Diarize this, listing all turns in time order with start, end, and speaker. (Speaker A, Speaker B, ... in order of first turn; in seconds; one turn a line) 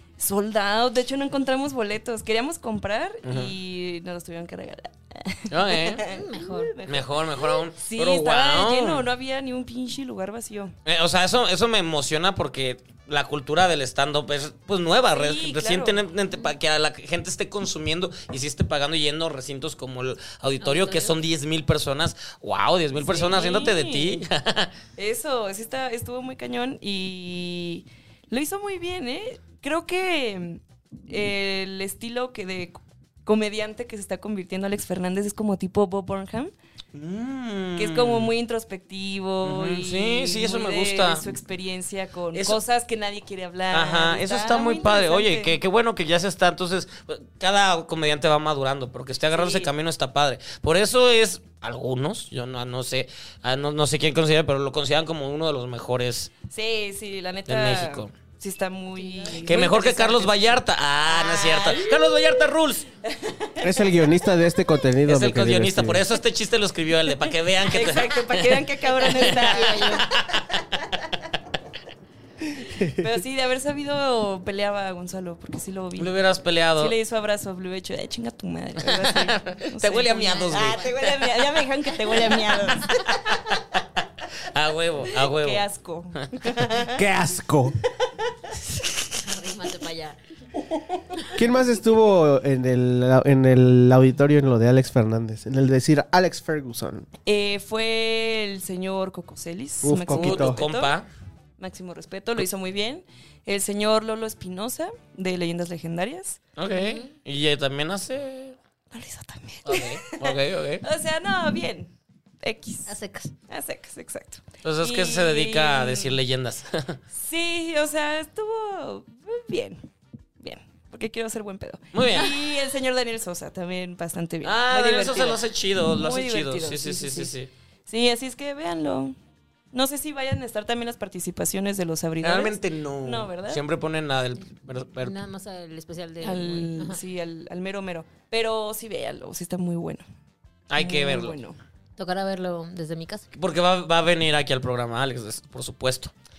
Speaker A: 0.2-10.7
Speaker B: 3.2-3.5
Speaker B: 5.5-6.0
Speaker C: 6.0-6.7
Speaker B: 6.9-9.1
Speaker B: 10.9-24.7
Speaker A: 15.1-16.0
Speaker C: 20.6-21.1
Speaker A: 23.0-24.2
Speaker A: 25.0-36.5
Speaker B: 36.9-38.3
Speaker A: 37.8-45.5
Speaker B: 39.4-41.2
Speaker B: 42.3-42.6
Speaker B: 43.7-56.3
Speaker A: 49.3-49.7
Speaker A: 56.5-60.5
Speaker B: 57.5-58.1
Speaker C: 58.9-59.6
Speaker B: 59.4-62.9
Speaker A: 61.1-62.5
Speaker A: 63.0-63.9
Speaker D: 63.6-66.0
Speaker B: 65.1-70.6
Speaker A: 67.6-70.4
Speaker C: 69.3-70.1
Speaker D: 72.5-73.1
Speaker A: 73.0-76.1
Speaker B: 76.0-76.9
Speaker A: 76.8-83.3
Speaker B: 78.8-81.5
Speaker C: 80.4-80.9
Speaker B: 82.0-83.6
Speaker B: 84.5-85.6
Speaker A: 85.2-87.0
Speaker D: 86.8-87.8
Speaker B: 88.7-89.0
Speaker C: 89.2-90.2
Speaker D: 91.3-97.1
Speaker A: 97.2-100.9
Speaker D: 99.8-100.6
Speaker B: 100.1-101.1
Speaker A: 101.6-106.4
Speaker B: 106.6-108.6
Speaker C: 106.7-107.1
Speaker A: 108.9-112.9
Speaker B: 109.6-110.8
Speaker C: 112.9-113.3
Speaker A: 113.5-116.2
Speaker B: 114.6-117.0
Speaker A: 117.1-119.8
Speaker A: 120.4-127.3
Speaker B: 121.9-122.4
Speaker B: 124.4-127.5
Speaker A: 127.9-129.2
Speaker A: 129.7-133.6
Speaker B: 132.2-135.2
Speaker C: 135.0-137.0
Speaker A: 136.2-140.0
Speaker B: 140.7-141.4
Speaker A: 140.8-141.6
Speaker C: 142.0-143.3
Speaker B: 143.3-146.1